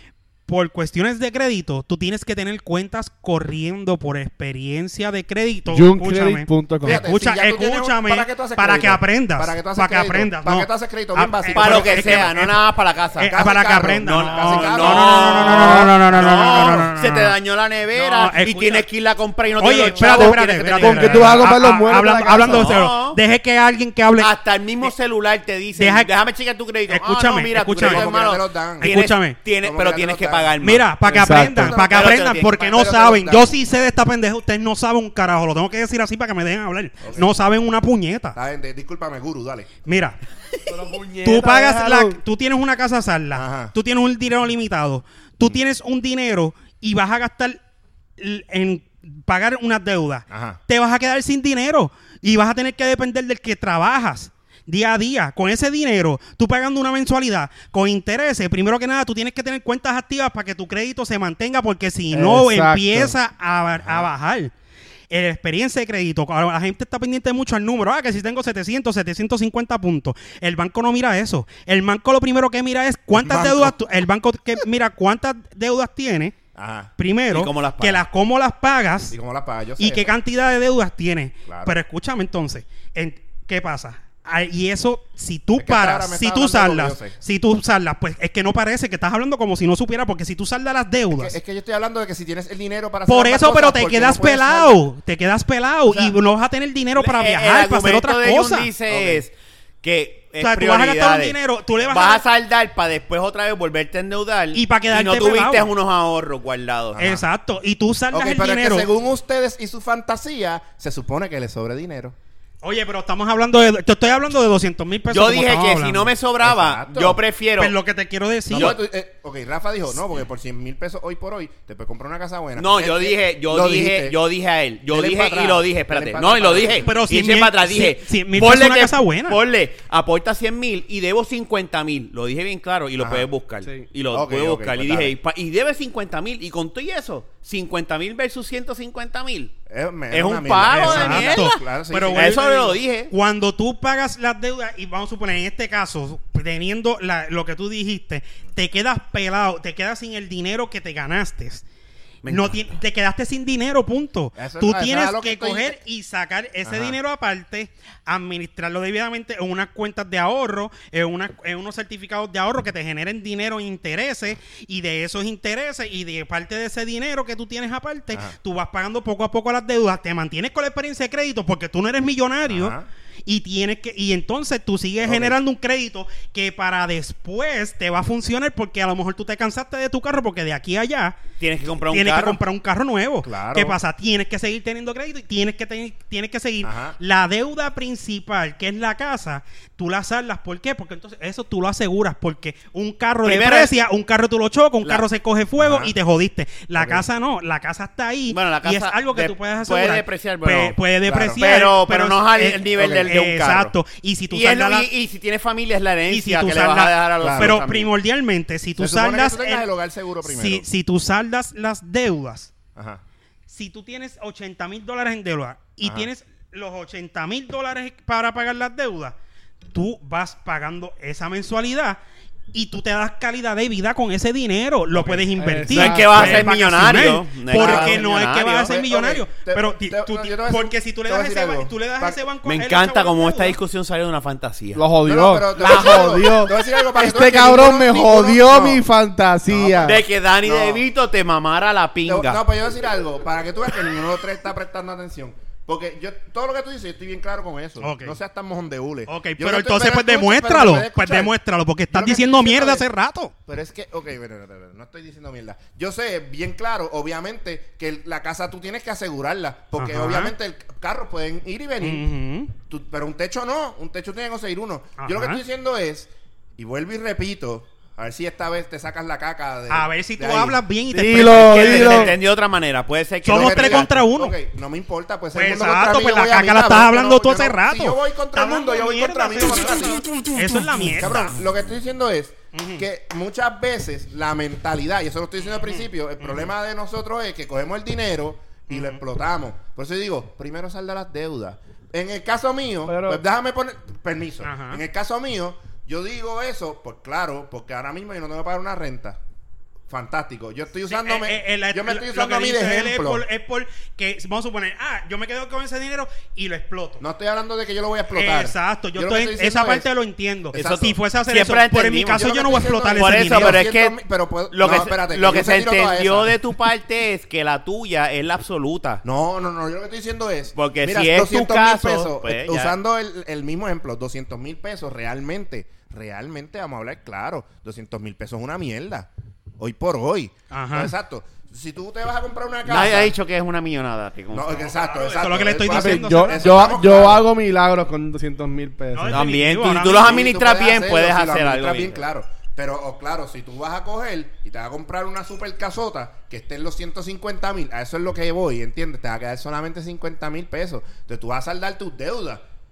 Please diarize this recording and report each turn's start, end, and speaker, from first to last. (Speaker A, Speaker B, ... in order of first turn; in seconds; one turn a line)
Speaker A: 0.5-12.6
Speaker B: 5.7-7.0
Speaker C: 6.8-12.3
Speaker D: 11.5-13.3
Speaker A: 13.2-17.3
Speaker C: 13.3-15.5
Speaker D: 14.0-21.5
Speaker B: 15.5-15.9
Speaker C: 16.2-16.9
Speaker A: 17.9-18.9
Speaker A: 19.6-24.3
Speaker C: 19.8-21.5
Speaker B: 20.0-22.7
Speaker D: 22.4-23.2
Speaker D: 24.2-30.9
Speaker A: 25.8-26.1
Speaker A: 26.9-28.1
Speaker C: 27.7-28.9
Speaker A: 28.8-29.4
Speaker C: 29.6-30.6
Speaker A: 30.6-38.4
Speaker B: 31.0-31.8
Speaker C: 31.3-33.5
Speaker D: 31.9-32.8
Speaker C: 37.0-37.3
Speaker C: 38.3-39.7
Speaker A: 39.9-40.2
Speaker B: 40.6-42.2
Speaker A: 41.2-47.6
Speaker C: 43.3-43.7
Speaker A: 48.2-64.5
Speaker C: 50.3-50.6
Speaker B: 62.1-63.1
Speaker C: 63.8-64.1
Speaker A: 65.1-76.3
Speaker C: 73.1-73.7
Speaker C: 76.5-76.9
Speaker A: 77.0-79.1
Speaker D: 77.3-78.0
Speaker C: 79.1-80.1
Speaker A: 79.8-91.4
Speaker C: 81.5-81.8
Speaker C: 85.6-87.2
Speaker C: 91.1-94.8
Speaker A: 93.1-98.7
Speaker D: 95.9-96.1
Speaker D: 97.0-107.2
Speaker C: 98.9-99.2
Speaker A: 100.4-102.2
Speaker A: 104.5-105.7
Speaker C: 106.9-107.2
Speaker A: 107.0-108.9
Speaker C: 108.1-112.1
Speaker A: 112.6-116.1
Speaker D: 115.1-117.7
Speaker C: 116.4-117.2
Speaker A: 117.6-118.8
Speaker C: 118.5-124.2
Speaker D: 118.5-118.8
Speaker D: 122.5-139.5
Speaker C: 124.9-126.9
Speaker A: 126.8-129.4
Speaker C: 133.0-133.3
Speaker C: 134.1-135.1
Speaker C: 139.7-142.5
Speaker D: 140.1-141.6
Speaker A: 140.7-151.6
Speaker D: 142.1-143.1
Speaker D: 152.2-152.7
Speaker A: 152.2-172.7
Speaker C: 154.3-155.8
Speaker C: 156.6-157.0
Speaker C: 172.5-172.9
Speaker A: 173.2-181.2
Speaker C: 175.0-175.4
Speaker D: 181.4-182.4
Speaker A: 181.9-204.9
Speaker C: 183.2-183.8
Speaker C: 186.6-186.9
Speaker D: 193.2-193.8
Speaker C: 195.6-195.9
Speaker C: 196.8-197.0
Speaker D: 198.3-200.8
Speaker C: 201.1-201.4
Speaker D: 201.4-203.7
Speaker C: 202.7-203.1
Speaker D: 204.3-207.9
Speaker A: 206.1-209.6
Speaker C: 207.2-207.6
Speaker C: 208.8-210.6
Speaker A: 210.2-212.5
Speaker C: 212.8-213.0
Speaker A: 213.5-219.2
Speaker C: 215.8-216.1
Speaker A: 219.7-222.0
Speaker A: 222.5-233.6
Speaker C: 224.9-225.3
Speaker B: 225.3-226.5
Speaker D: 225.7-228.7
Speaker C: 227.5-232.2
Speaker D: 232.4-234.8
Speaker B: 234.7-240.0
Speaker C: 235.0-238.8
Speaker D: 235.6-236.2
Speaker C: 239.4-240.8
Speaker D: 239.8-242.4
Speaker C: 242.1-251.3
Speaker A: 247.8-248.2
Speaker A: 249.1-253.3
Speaker C: 251.9-252.8
Speaker C: 253.5-262.0
Speaker A: 259.8-260.3
Speaker A: 261.8-262.5
Speaker C: 262.6-270.6
Speaker A: 265.0-265.4
Speaker A: 269.7-272.1
Speaker D: 270.9-273.9
Speaker B: 270.9-272.1
Speaker A: 273.2-274.4
Speaker C: 273.3-280.3
Speaker A: 275.3-281.3
Speaker C: 280.8-299.2
Speaker A: 282.5-282.8
Speaker A: 285.4-286.5
Speaker A: 288.7-289.0
Speaker B: 292.9-293.2
Speaker A: 294.4-294.8
Speaker C: 299.9-303.2
Speaker A: 300.9-307.0
Speaker C: 307.0-309.9
Speaker A: 308.1-313.6
Speaker D: 310.5-312.3
Speaker C: 312.1-316.4
Speaker D: 312.9-314.0
Speaker D: 314.5-319.0
Speaker C: 319.0-333.1
Speaker D: 320.6-322.8
Speaker A: 330.5-330.9
Speaker D: 332.6-334.7
Speaker C: 334.3-337.2
Speaker A: 334.5-337.1
Speaker B: 335.6-339.2
Speaker A: 338.9-340.2
Speaker D: 339.1-342.0
Speaker C: 339.9-352.4